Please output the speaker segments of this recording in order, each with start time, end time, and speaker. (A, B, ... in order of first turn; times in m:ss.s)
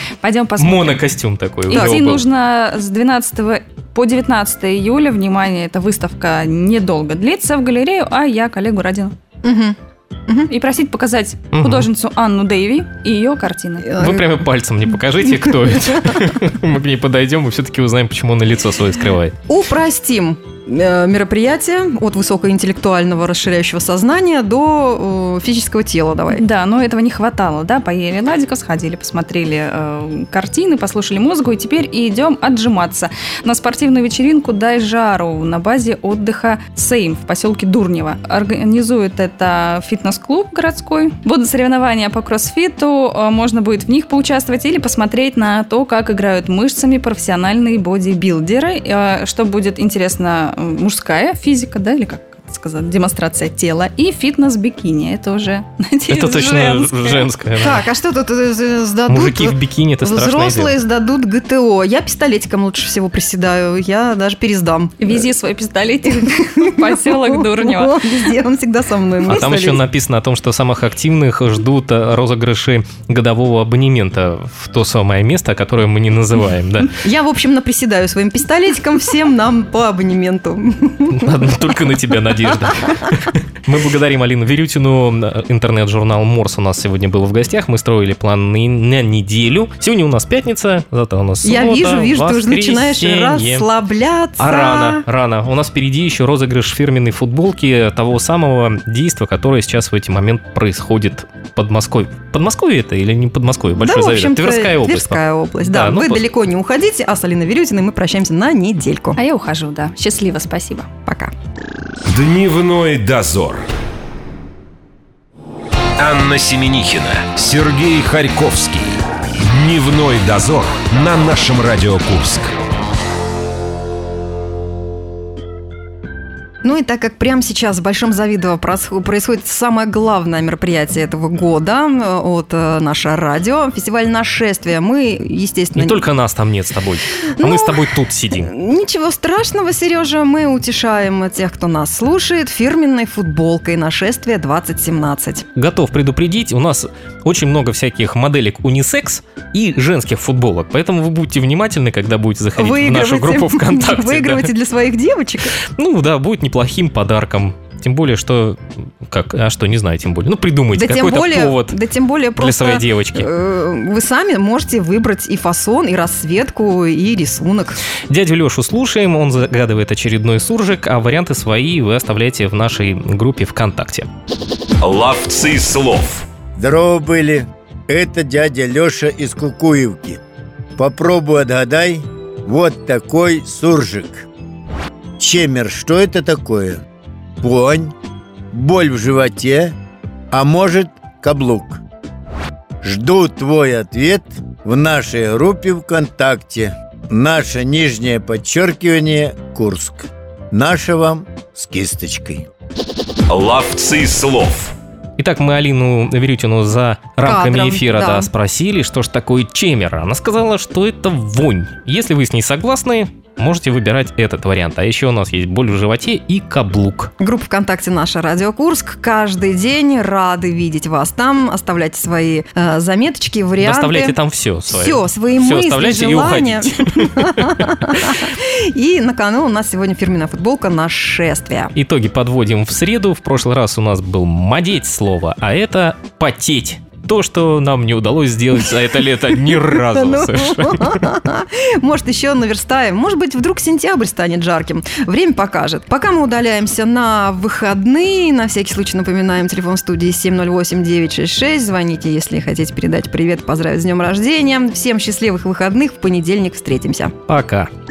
0:00.2-0:01.0 A
0:00.6-0:02.3 B
0:01.7-0:09.2 A
0:01.7-0:02.1 C
0:09.4-0:10.5 C
0:10.5-0:13.9 A
0:11.5-0:11.9 B
0:13.8-0:14.4 C
0:14.0-0:19.4 B
0:15.2-0:16.2 C
0:19.5-0:26.4 C
0:26.3-0:57.3 A
0:56.1-0:57.8 B
0:57.6-1:05.2 C
0:59.1-1:00.8 B
1:05.0-1:08.1 A
1:06.2-1:09.8 C
1:09.2-1:17.0 B
1:17.0-1:21.5 C
1:21.1-1:33.7 B
1:31.4-1:35.0 C
1:34.4-1:46.2 B
1:43.8-1:49.2 C
1:49.2-1:50.9 A
1:51.1-1:51.3 C
1:52.1-1:53.7 D
1:56.0-2:02.6 D
2:06.6-2:16.0 C
2:15.8-2:18.5 B
2:17.4-2:25.5 C
2:25.6-2:34.5 B
2:32.6-2:35.6 C
2:35.7-2:41.8 B
2:40.7-2:47.8 C
2:42.4-2:43.3 B
2:48.1-2:54.1 B
2:54.8-2:56.3 D
2:56.6-3:00.2 E
3:00.8-3:04.3 E
3:05.2-3:06.8 E
3:07.4-3:07.9 E
3:08.5-3:09.7 E
3:10.3-3:11.8 E
3:12.8-3:22.5 E
3:23.3-3:24.8 D
3:25.2-3:37.1 B
3:27.2-3:28.3 C
3:37.2-3:44.2 C
3:43.6-3:48.2 B
3:44.7-3:51.7 C
3:51.8-4:01.1 B
3:59.5-4:17.1 C
4:17.3-4:17.7 B